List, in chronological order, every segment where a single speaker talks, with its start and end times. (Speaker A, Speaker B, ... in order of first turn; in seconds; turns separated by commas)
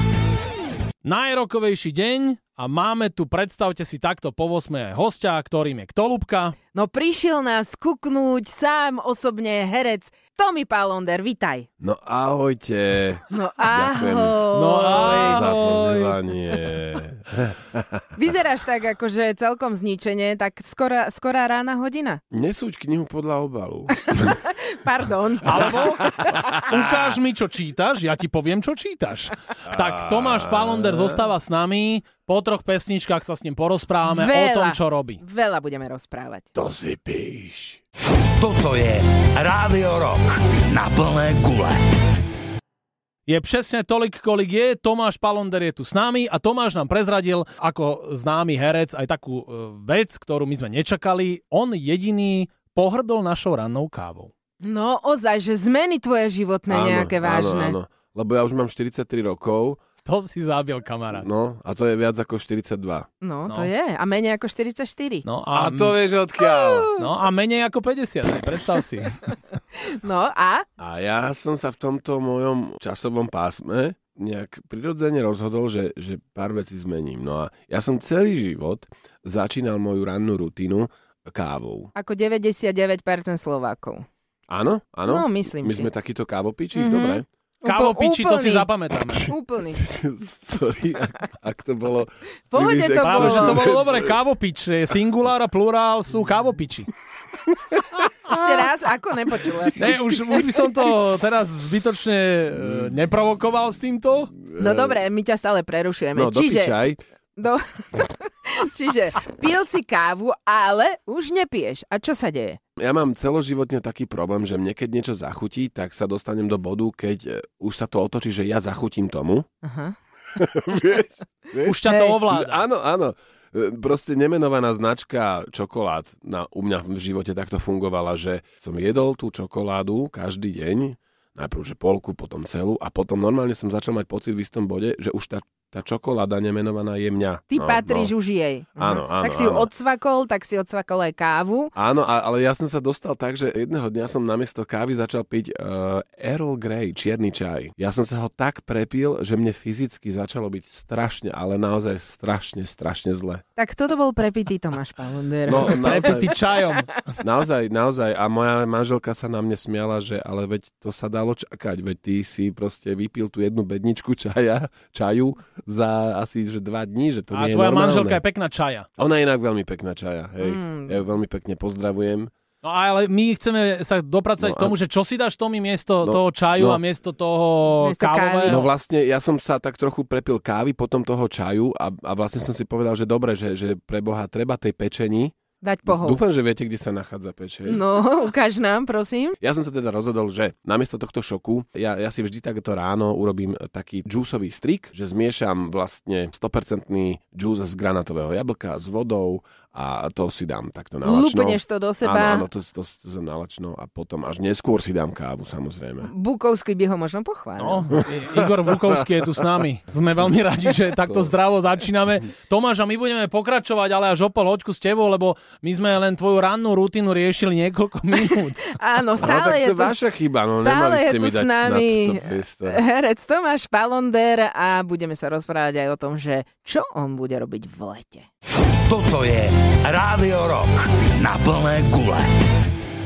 Speaker A: 1.0-6.5, Speaker B: 6.7-11.7, Speaker C: 11.8-18.0, Speaker B: 13.3-15.6, Speaker A: 14.5-16.2, Speaker B: 18.1-22.2, Speaker C: 22.3-24.4, Speaker B: 24.0-26.1, Speaker A: 25.4-35.2, Speaker C: 25.5-27.1, Speaker C: 29.6-31.3, Speaker B: 34.0-36.5, Speaker C: 36.5-37.8, Speaker D: 38.4-41.8, Speaker A: 43.3-54.3, Speaker B: 54.6-57.8, Speaker C: 56.7-59.8, Speaker A: 60.0-61.3, Speaker C: 61.1-63.1, Speaker B: 63.2-65.2, Speaker A: 65.2-66.0, Speaker C: 65.5-66.9, Speaker B: 66.4-67.1, Speaker A: 66.9-69.3, Speaker B: 69.8-70.7, Speaker C: 70.8-81.9, Speaker B: 81.9-84.0, Speaker C: 84.5-87.2, Speaker B: 85.1-85.9, Speaker B: 86.7-89.9, Speaker A: 87.6-89.3, Speaker C: 89.8-94.2, Speaker B: 92.5-93.7, Speaker A: 93.0-96.9, Speaker C: 97.5-97.8, Speaker B: 98.2-100.4, Speaker A: 99.8-104.3, Speaker C: 104.4-105.0, Speaker B: 104.5-106.8, Speaker C: 106.1-107.0, Speaker B: 107.3-112.6, Speaker C: 112.8-119.5, Speaker B: 119.6-120.0, Speaker C: 120.3-138.1, Speaker A: 121.6-122.6, Speaker B: 121.9-122.2, Speaker B: 137.5-141.7, Speaker C: 138.8-139.7, Speaker C: 141.7-153.4, Speaker B: 153.6-156.3, Speaker C: 155.5-156.3, Speaker A: 155.5-157.1, Speaker C: 157.2-168.2, Speaker A: 167.3-168.8, Speaker C: 169.0-172.3, Speaker B: 170.4-171.0, Speaker A: 172.6-178.6, Speaker C: 174.4-174.8, Speaker C: 176.0-176.8, Speaker B: 177.8-178.6, Speaker C: 178.4-187.8, Speaker B: 185.6-186.2, Speaker B: 187.7-189.4, Speaker C: 189.4-206.1, Speaker B: 201.0-202.5, Speaker B: 206.0-208.0, Speaker A: 207.6-218.6, Speaker C: 208.3-209.1, Speaker B: 218.1-220.0, Speaker C: 219.2-222.8, Speaker B: 220.5-228.3, Speaker D: 228.9-232.3